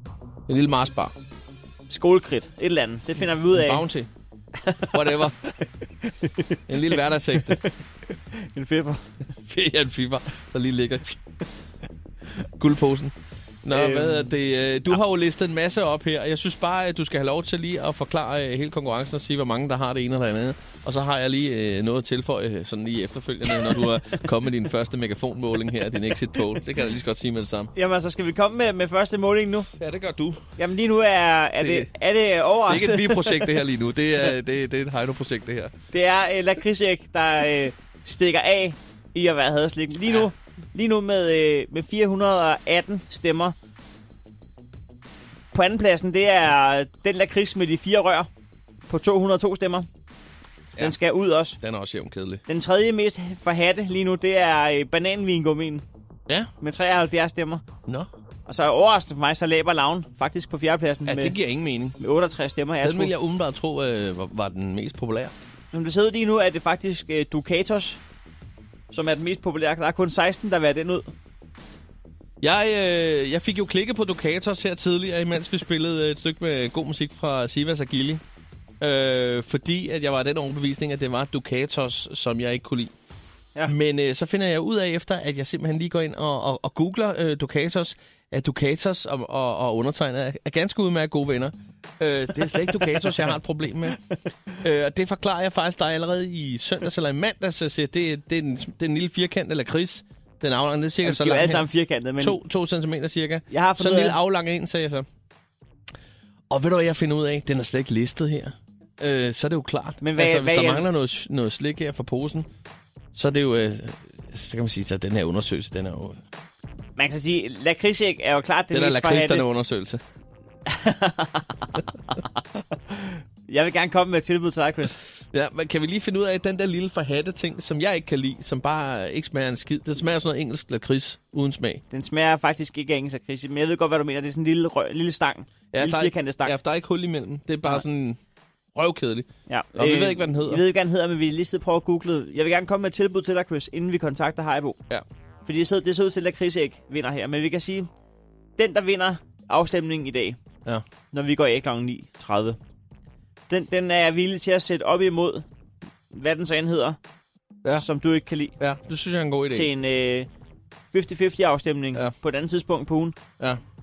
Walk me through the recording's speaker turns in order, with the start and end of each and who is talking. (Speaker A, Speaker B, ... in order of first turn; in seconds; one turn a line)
Speaker A: 0.5-1.1
Speaker B: 1.9-3.8
Speaker A: 3.5-4.1
Speaker B: 4.6-5.2
Speaker A: 4.9-5.3
Speaker B: 6.0-9.1
Speaker A: 6.7-7.6
Speaker A: 9.4-11.2
Speaker A: 12.6-27.7
Speaker B: 13.7-14.3
Speaker B: 27.7-29.7
Speaker A: 29.8-30.4
Speaker B: 30.6-33.5
Speaker A: 31.6-31.9
Speaker A: 32.7-35.7
Speaker B: 35.9-43.5
Speaker B: 45.5-48.3
Speaker B: 48.9-49.9
Speaker B: 50.8-51.6
Speaker A: 51.6-52.4
Speaker B: 52.5-55.8
Speaker B: 56.6-57.6
Speaker B: 58.5-61.4
Speaker A: 61.0-62.0
Speaker B: 62.0-63.1
Speaker A: 62.8-65.3
Speaker B: 65.7-68.0
Speaker B: 68.9-71.1
Speaker A: 72.4-78.2
Speaker A: 78.8-82.9
Speaker A: 83.7-94.0
Speaker B: 92.7-93.3
Speaker A: 94.6-101.7
Speaker B: 101.0-102.4
Speaker A: 102.2-105.1
Speaker B: 103.5-104.2
Speaker A: 106.5-112.5
Speaker B: 110.0-110.9
Speaker A: 113.1-116.2
Speaker B: 117.0-119.5
Speaker A: 118.7-120.0
Speaker B: 120.7-122.2
Speaker B: 122.9-124.9
Speaker A: 125.1-131.8
Speaker B: 131.9-136.5
Speaker A: 135.7-138.2
Speaker A: 138.7-140.6
Speaker B: 139.5-144.8
Speaker B: 145.4-147.9
Speaker B: 148.6-150.4
Speaker B: 151.1-152.6
Speaker B: 153.5-155.4
Speaker B: 156.1-157.0
Speaker B: 157.8-158.6
Speaker A: 158.6-159.7
Speaker B: 159.5-160.3
Speaker B: 160.9-163.2